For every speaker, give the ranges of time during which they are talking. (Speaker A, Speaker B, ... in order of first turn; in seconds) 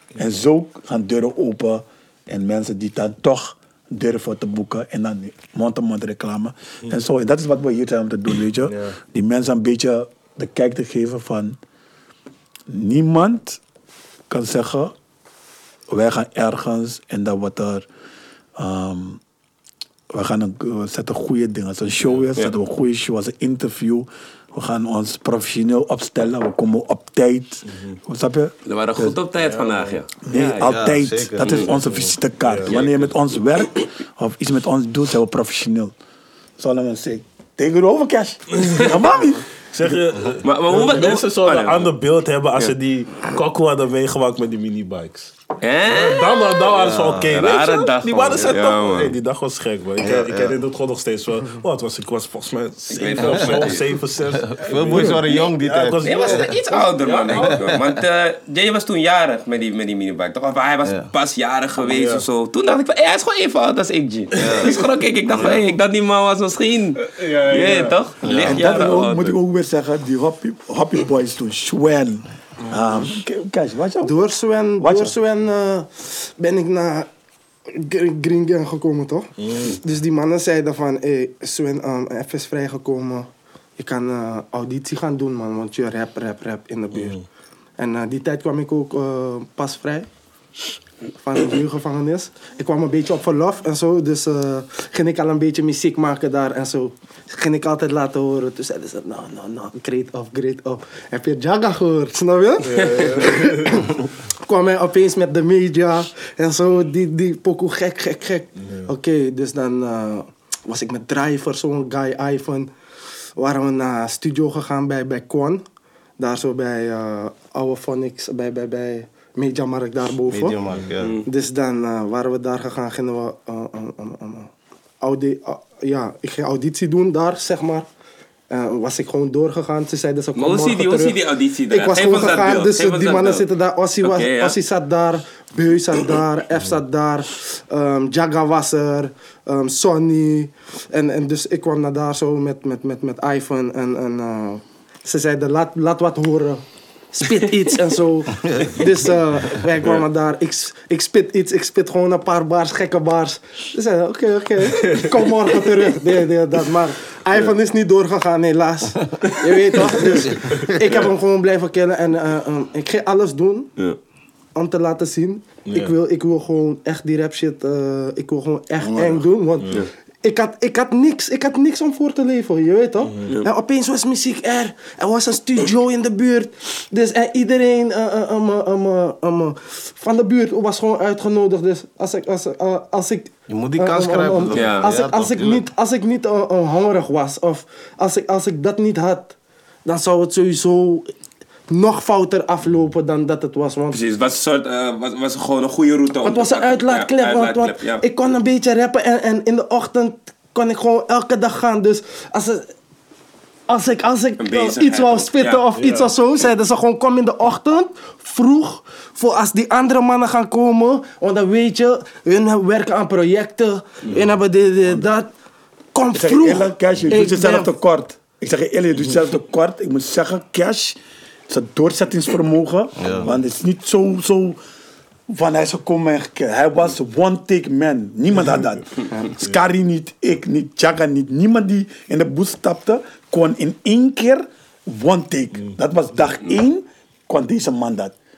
Speaker A: 0.2-11.6, 12.7-13.6, 14.3-14.9, 15.9-17.9, 18.6-19.2, 20.1-29.2, 30.2-35.9, 36.6-40.0, 68.4-74.2, 74.8-75.2, 216.1-221.0, 221.5-224.6, 225.3-238.2
Speaker B: 8.7-9.0, 27.7-28.0, 29.4-30.0, 32.4-32.8, 38.5-39.0, 39.7-45.3, 45.9-57.6, 61.8-62.2, 67.0-68.4, 79.4-79.8, 86.9-87.2, 102.6-103.7, 154.8-155.2, 165.7-166.0, 205.7-206.1, 214.0-214.3
Speaker C: 28.6-30.7, 31.4-31.8, 32.7-33.1, 40.4-41.9, 45.6-49.1, 52.9-53.8, 56.0-69.4, 121.0-121.3, 130.3-133.5, 134.0-134.6, 184.5-184.9, 193.9-198.0, 204.4-205.6
Speaker D: 30.6-32.0, 46.8-47.4, 50.0-50.5, 53.2-56.6, 57.3-58.0, 60.9-61.1, 64.3-64.8, 65.3-65.7, 68.2-68.6, 120.3-121.2, 148.4-148.8, 160.1-160.9, 183.5-185.6, 223.0-223.3
Speaker E: 74.0-77.1, 77.7-87.2, 87.8-90.1, 91.2-112.7, 113.4-115.6, 116.2-120.6, 121.2-124.5, 125.0-127.9, 128.5-163.7, 164.6-189.3, 189.8-191.1, 191.7-194.0, 196.2-202.7, 203.7-215.3, 215.9-217.7